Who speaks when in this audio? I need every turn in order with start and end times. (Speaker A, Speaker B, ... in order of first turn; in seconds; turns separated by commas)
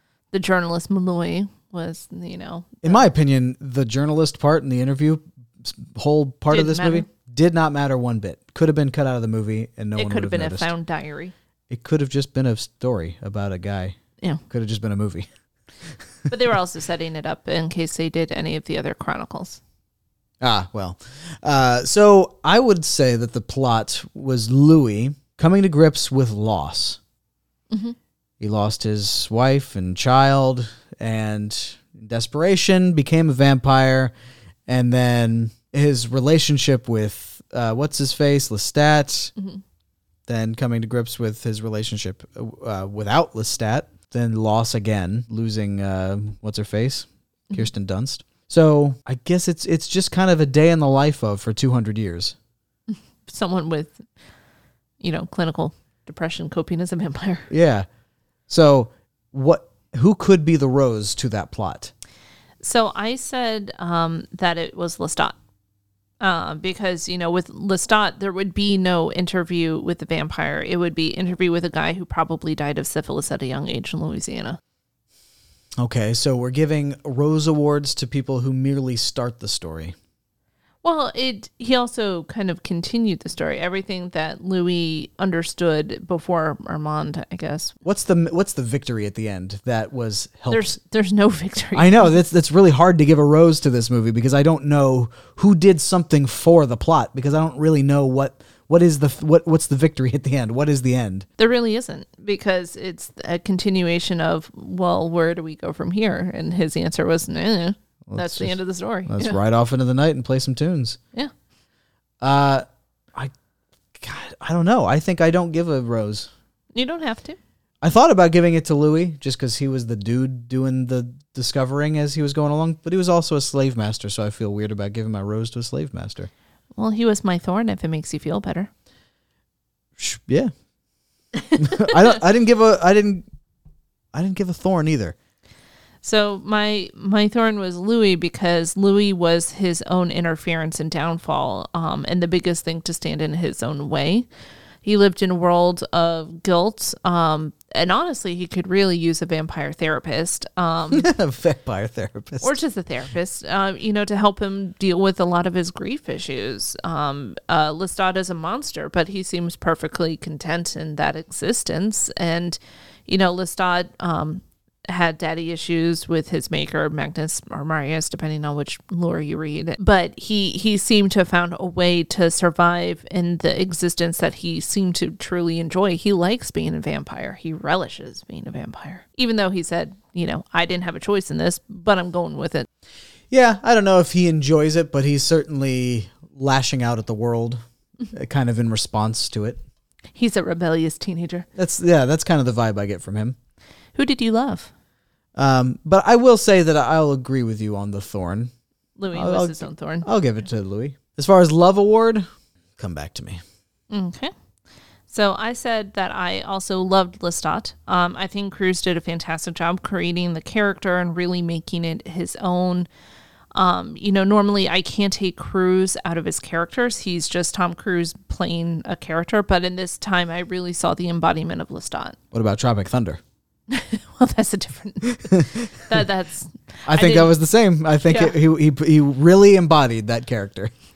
Speaker A: 0.3-3.1, Speaker B: 2.8-10.7, Speaker A: 6.5-7.1, Speaker A: 9.9-11.3, Speaker B: 11.7-14.0, Speaker B: 14.5-15.3, Speaker A: 16.3-19.6, Speaker B: 20.4-27.0, Speaker A: 27.7-28.0, Speaker B: 28.4-34.1, Speaker B: 34.7-39.3, Speaker B: 40.3-52.3, Speaker A: 52.9-54.0, Speaker A: 55.0-57.5, Speaker B: 57.5-57.9, Speaker B: 58.5-61.9, Speaker A: 62.6-65.4, Speaker A: 66.2-74.6, Speaker B: 75.8-79.9, Speaker A: 80.8-87.7, Speaker B: 87.8-90.8, Speaker A: 90.5-92.2, Speaker B: 91.7-101.2, Speaker A: 101.4-109.4, Speaker B: 108.1-111.0, Speaker B: 112.2-113.3, Speaker B: 113.9-116.3, Speaker A: 116.7-117.4, Speaker B: 117.8-126.3, Speaker A: 126.7-128.7, Speaker B: 130.0-130.5, Speaker B: 131.6-133.2, Speaker B: 134.1-135.1, Speaker A: 136.0-144.2, Speaker A: 144.8-151.1, Speaker B: 150.9-152.6, Speaker A: 152.4-182.7, Speaker B: 183.3-187.6, Speaker B: 188.1-189.6, Speaker A: 190.1-191.5, Speaker B: 191.6-193.4, Speaker A: 193.9-194.7, Speaker B: 195.3-198.5, Speaker A: 199.0-200.1, Speaker B: 199.1-203.4, Speaker A: 203.9-204.3, Speaker A: 205.1-212.9, Speaker A: 213.5-222.2, Speaker B: 222.3-223.2, Speaker A: 223.7-227.3, Speaker B: 225.3-225.7, Speaker B: 226.8-230.7, Speaker A: 228.1-228.3